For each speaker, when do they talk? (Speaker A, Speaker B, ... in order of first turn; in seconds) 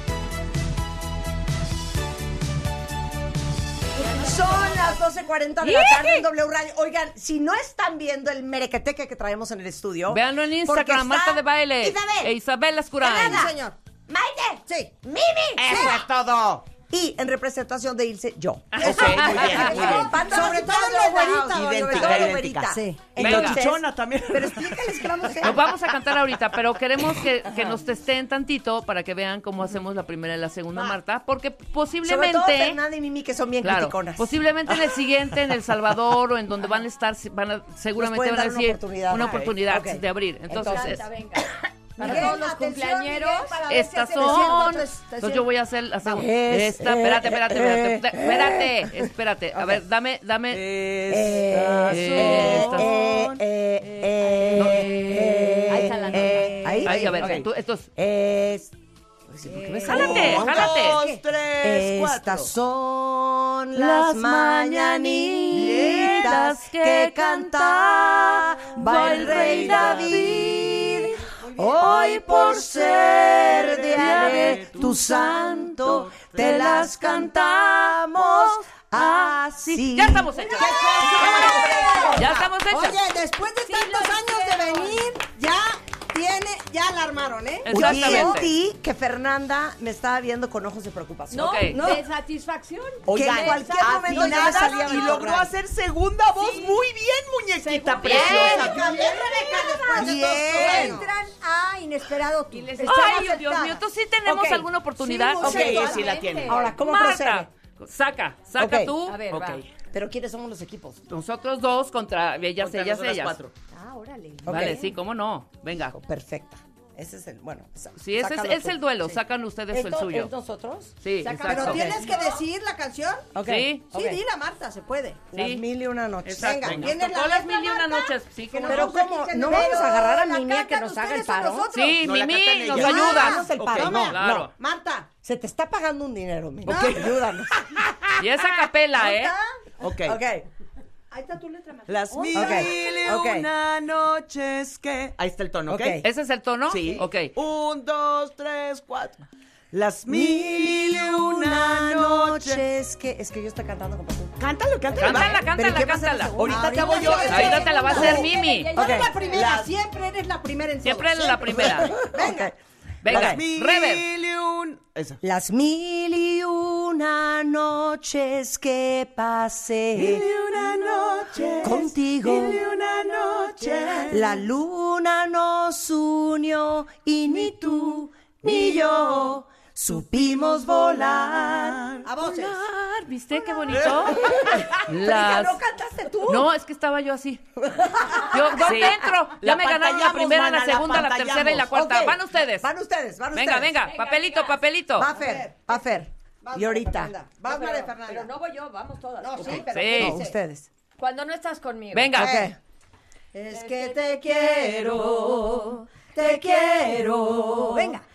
Speaker A: 4.0-12.3, 13.0-13.5, 14.1-16.0, 16.9-25.7, 32.0-34.3, 38.0-41.0, 42.0-42.3, 46.0-49.8, 51.1-58.7, 59.3-61.0, 61.6-80.3, 81.2-82.1, 87.7-91.5, 93.1-95.5, 100.0-101.0, 104.2-104.7, 105.4-105.9, 106.5-107.5, 108.6-109.0, 109.8-111.0, 114.4-114.8, 115.9-119.2, 119.7-120.9, 123.3-124.2, 125.3-126.7, 128.7-131.7, 132.7-134.5, 135.2-138.1, 140.0-140.4, 142.3-143.5, 145.7-146.0, 150.1-154.3, 155.0-157.3, 158.7-159.1, 161.6-162.5, 163.1-163.4, 165.2-170.2, 171.6-172.6, 174.1-182.0, 183.8-186.5, 187.6-188.6, 191.7-193.8, 195.0-197.1, 199.9-200.7, 202.1-202.6, 207.3-207.8
Speaker B: 4.0-4.9, 40.6-44.3, 53.9-54.4, 55.7-56.9, 81.2-82.1, 83.6-85.1, 91.3-95.1, 96.3-96.8, 97.6-99.2, 102.5-103.6, 105.4-106.8, 109.0-109.7, 121.2-122.2, 157.1-159.5, 193.8-194.6, 197.4-199.8, 200.9-202.2, 203.5-204.1
Speaker C: 5.6-6.2, 10.1-13.5, 18.7-20.0, 23.2-23.6, 25.4-32.8, 33.6-41.0, 43.7-50.6, 51.9-52.9, 54.5-55.5, 56.8-57.9, 59.8-61.0, 63.8-71.1, 74.0-74.9, 76.4-77.3, 79.0-81.0, 82.1-83.0, 87.6-88.5, 91.3-91.8, 98.0-98.6, 102.8-105.8, 106.7-109.4, 111.1-113.4, 114.5-116.0, 118.0-120.3, 121.0-121.9, 123.4-123.9, 125.3-125.6, 126.2-129.0, 131.7-134.5, 138.2-139.3, 146.0-147.3, 154.9-156.4, 157.2-158.7, 160.8-162.0, 163.0-164.1, 182.2-185.6, 186.3-187.4, 188.1-192.7, 193.3-195.1, 199.6-200.2, 201.9-202.5
Speaker D: 13.0-13.8, 14.7-14.9, 15.6-15.9, 18.8-23.1, 42.0-45.5, 80.5-87.9, 91.7-92.0, 98.1-101.1, 121.5-123.3, 123.9-125.3, 126.4-130.2, 132.8-135.1, 136.7-137.2, 141.1-142.6, 156.5-162.5, 182.0-182.7, 195.1-195.9, 196.4-198.3, 199.2-200.3, 203.3-207.2
Speaker E: 15.6-16.7, 18.8-20.1, 21.4-25.6, 39.2-39.5, 50.5-53.4, 59.8-62.5, 65.5-66.4, 68.9-70.8, 71.4-76.5, 87.7-88.2, 93.1-98.8, 100.0-100.9, 105.4-106.6, 109.3-109.6, 112.6-113.5, 126.2-126.9, 132.0-134.2, 136.6-137.3, 139.8-140.2, 141.9-146.0, 146.7-152.6, 154.4-155.5, 156.4-158.1, 159.3-159.7, 163.1-165.2, 169.9-174.4, 178.4-179.3, 180.6-182.1, 183.7-184.8, 188.5-191.7
Speaker F: 42.1-42.6, 56.3-56.9, 59.5-61.2, 80.4-82.3, 98.1-103.8, 105.8-106.0, 113.7-114.8, 129.6-132.0, 142.2-142.6, 207.7-208.0